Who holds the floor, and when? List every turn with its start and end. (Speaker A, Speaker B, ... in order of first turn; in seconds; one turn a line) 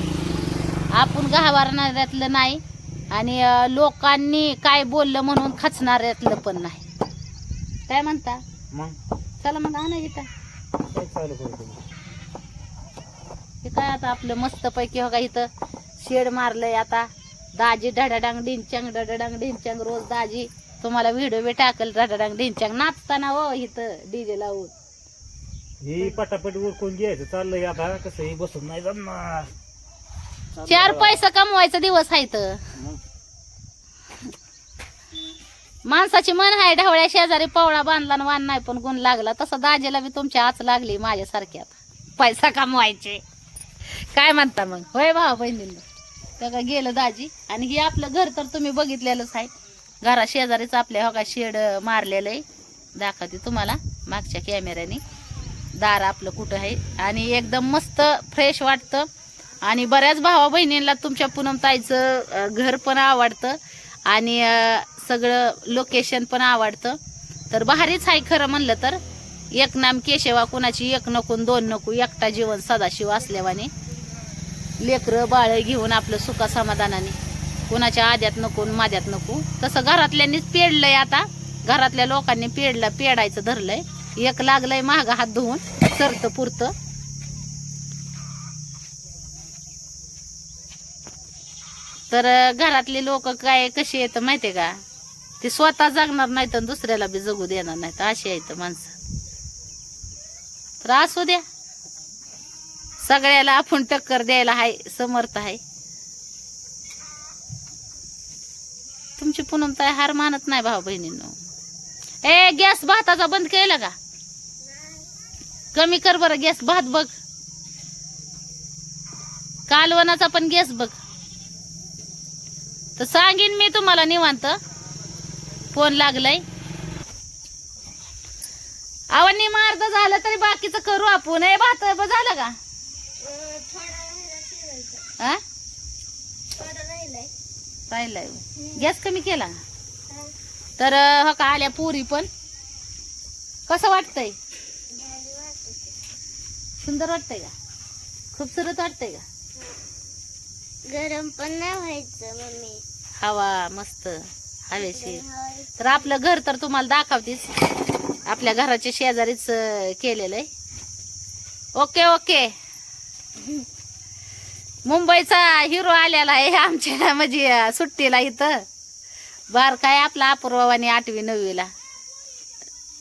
Speaker A: 0.9-6.8
Speaker A: 7.9-8.4
Speaker B: 8.7-9.0
Speaker A: 9.4-10.3
Speaker B: 10.8-11.8
Speaker A: 13.6-24.7
Speaker B: 25.8-29.5
Speaker B: 30.6-31.2
Speaker A: 30.7-32.6
Speaker B: 32.8-33.0
Speaker A: 35.9-43.2
Speaker A: 44.0-45.8
Speaker A: 46.4-49.5
Speaker A: 50.0-52.4
Speaker A: 53.0-55.0
Speaker A: 55.8-59.1
Speaker A: 59.6-67.0
Speaker A: 67.5-69.0
Speaker A: 69.5-73.7
Speaker A: 74.8-77.2
Speaker A: 77.7-86.7
Speaker A: 92.1-94.8
Speaker A: 95.4-98.9
Speaker A: 100.8-101.4
Speaker A: 103.0-105.6
Speaker A: 109.2-111.4
Speaker A: 112.2-114.0
Speaker A: 115.7-117.1
Speaker A: 119.7-121.0
Speaker A: 123.0-124.6
Speaker A: 125.7-126.4
Speaker A: 129.1-132.6
Speaker C: 133.2-135.0
Speaker C: 136.6-137.3
Speaker A: 137.9-139.6
Speaker A: 140.8-142.3
Speaker A: 143.7-144.4
Speaker C: 144.9-145.9
Speaker A: 146.8-147.5
Speaker A: 148.3-149.2
Speaker C: 150.9-152.8
Speaker A: 153.2-155.2
Speaker C: 154.7-155.7
Speaker A: 155.8-157.5
Speaker A: 158.3-160.5
Speaker A: 161.8-162.5
Speaker A: 164.8-168.6
Speaker A: 169.5-171.7